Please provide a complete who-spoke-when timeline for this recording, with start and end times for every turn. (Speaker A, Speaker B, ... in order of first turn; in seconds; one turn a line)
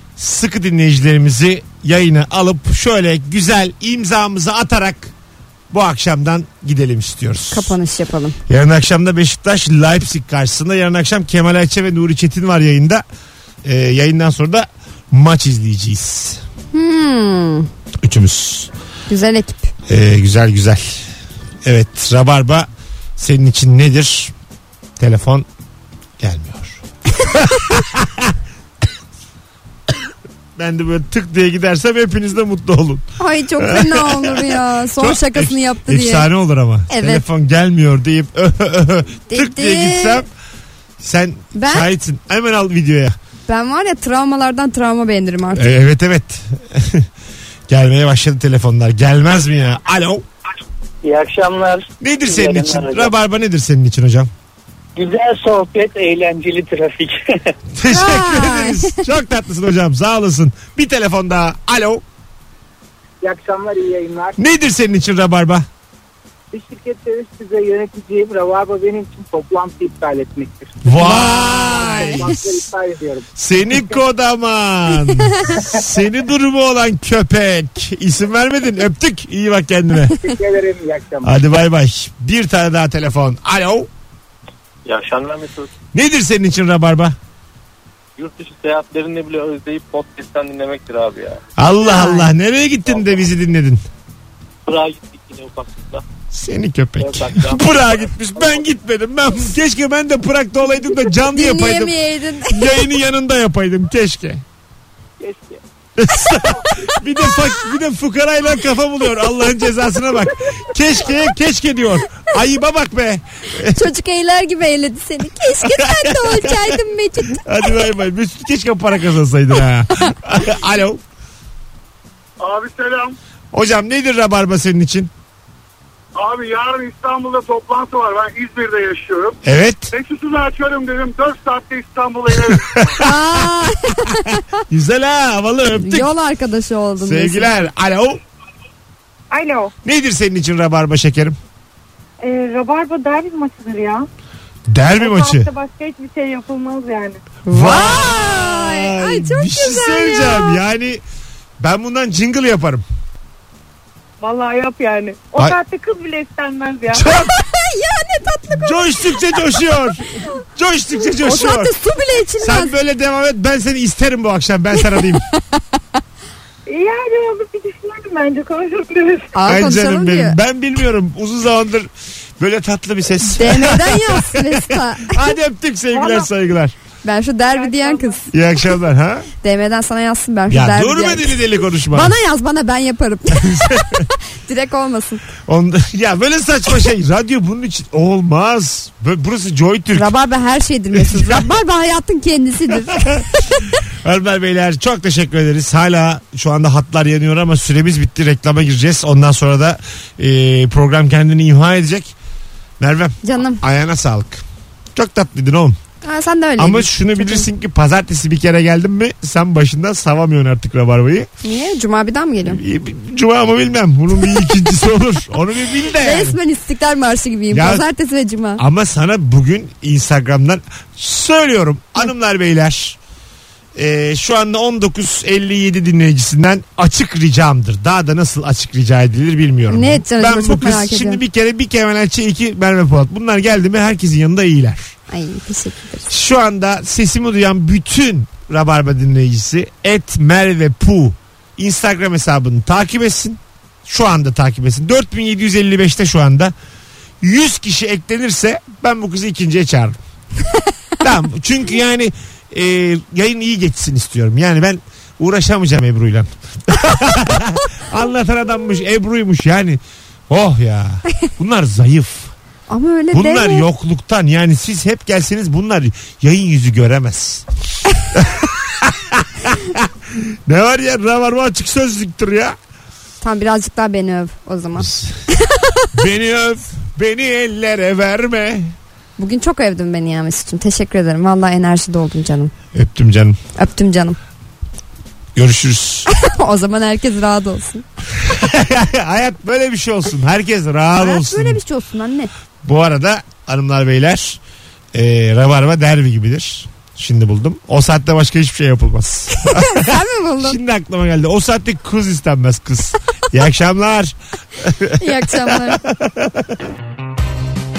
Speaker A: 0.2-5.1
Speaker A: 5.7-7.8
Speaker B: 7.5-8.4
Speaker A: 8.5-13.0
Speaker A: 13.6-16.4
Speaker B: 16.7-17.7
Speaker A: 18.0-18.7
Speaker B: 19.1-19.7
Speaker A: 19.9-21.1
Speaker A: 21.6-24.3
Speaker A: 25.0-25.4
Speaker A: 26.2-28.3
Speaker A: 30.6-33.0
Speaker B: 33.2-36.3
Speaker A: 33.6-40.3
Speaker B: 36.9-37.2
Speaker B: 39.3-40.2
Speaker A: 41.0-43.1
Speaker B: 41.5-41.9
Speaker B: 43.5-45.7
Speaker A: 45.5-47.1
Speaker A: 47.7-50.2
Speaker C: 51.0-53.1
Speaker A: 52.0-54.3
Speaker C: 55.0-57.2
Speaker A: 57.7-62.0
Speaker B: 57.9-59.0
Speaker C: 63.2-64.4
Speaker A: 64.4-65.7
Speaker C: 66.5-70.8
Speaker A: 70.8-72.4
Speaker B: 71.0-72.4
Speaker C: 71.4-74.0
Speaker A: 73.4-80.2
Speaker C: 80.2-81.3
Speaker A: 81.2-83.9
Speaker D: 84.8-85.7
Speaker A: 85.9-87.2
Speaker D: 88.2-91.4
Speaker A: 91.6-93.8
Speaker B: 91.8-92.3
Speaker D: 94.7-96.0
Speaker A: 96.3-101.9
Speaker D: 97.0-97.8
Speaker B: 101.2-102.8
Speaker A: 102.5-104.4
Speaker D: 105.2-105.6
Speaker A: 106.0-113.8
Speaker B: 113.7-117.7
Speaker A: 115.6-121.0
Speaker E: 122.4-123.2
Speaker A: 123.5-125.1
Speaker E: 126.1-129.4
Speaker A: 129.4-129.9
Speaker E: 129.9-133.0
Speaker A: 132.5-133.1
Speaker B: 133.0-134.4
Speaker A: 134.7-136.1
Speaker B: 135.8-137.5
Speaker A: 137.0-138.2
Speaker F: 139.3-139.7
Speaker A: 139.8-141.4
Speaker F: 142.2-144.1
Speaker A: 144.7-145.5
Speaker F: 145.0-147.2
Speaker B: 147.5-150.6
Speaker A: 147.5-151.0
Speaker A: 151.6-152.8
Speaker F: 154.2-157.0
Speaker A: 156.9-157.3
Speaker B: 157.0-159.5
Speaker A: 158.5-161.7
Speaker B: 161.2-162.7
Speaker A: 162.4-165.2
Speaker F: 166.7-169.3
Speaker B: 169.3-170.3
Speaker A: 169.4-176.7
Speaker B: 173.2-175.2
Speaker F: 175.9-176.3
Speaker B: 177.0-178.3
Speaker F: 177.5-178.2
Speaker A: 178.3-179.3
Speaker B: 179.4-185.2
Speaker A: 180.5-182.1
Speaker A: 183.3-184.1
Speaker A: 185.4-190.1
Speaker B: 189.9-193.6
Speaker A: 190.9-191.5
Speaker A: 192.9-193.2
Speaker A: 194.0-202.1
Speaker A: 202.8-204.4
Speaker B: 203.2-203.6
Speaker A: 204.9-205.8
Speaker B: 206.0-207.5
Speaker A: 206.6-211.3
Speaker B: 211.4-212.6
Speaker A: 212.4-216.4
Speaker B: 216.0-218.6
Speaker A: 217.5-217.8
Speaker A: 218.6-223.0
Speaker A: 223.7-234.9
Speaker B: 229.7-231.2
Speaker B: 235.1-236.1
Speaker A: 236.1-246.5
Speaker A: 247.2-250.0
Speaker A: 251.0-262.3
Speaker B: 262.7-263.6
Speaker A: 263.1-267.4
Speaker A: 268.1-272.5
Speaker B: 273.2-275.9
Speaker A: 274.8-275.1
Speaker A: 275.9-278.8
Speaker B: 279.2-282.5
Speaker A: 282.7-283.4
Speaker B: 283.5-284.2
Speaker A: 285.3-286.1
Speaker B: 286.1-287.8
Speaker A: 288.2-291.6
Speaker B: 291.0-292.3
Speaker A: 292.6-294.4
Speaker A: 294.9-306.4
Speaker B: 299.3-300.6
Speaker B: 305.0-305.8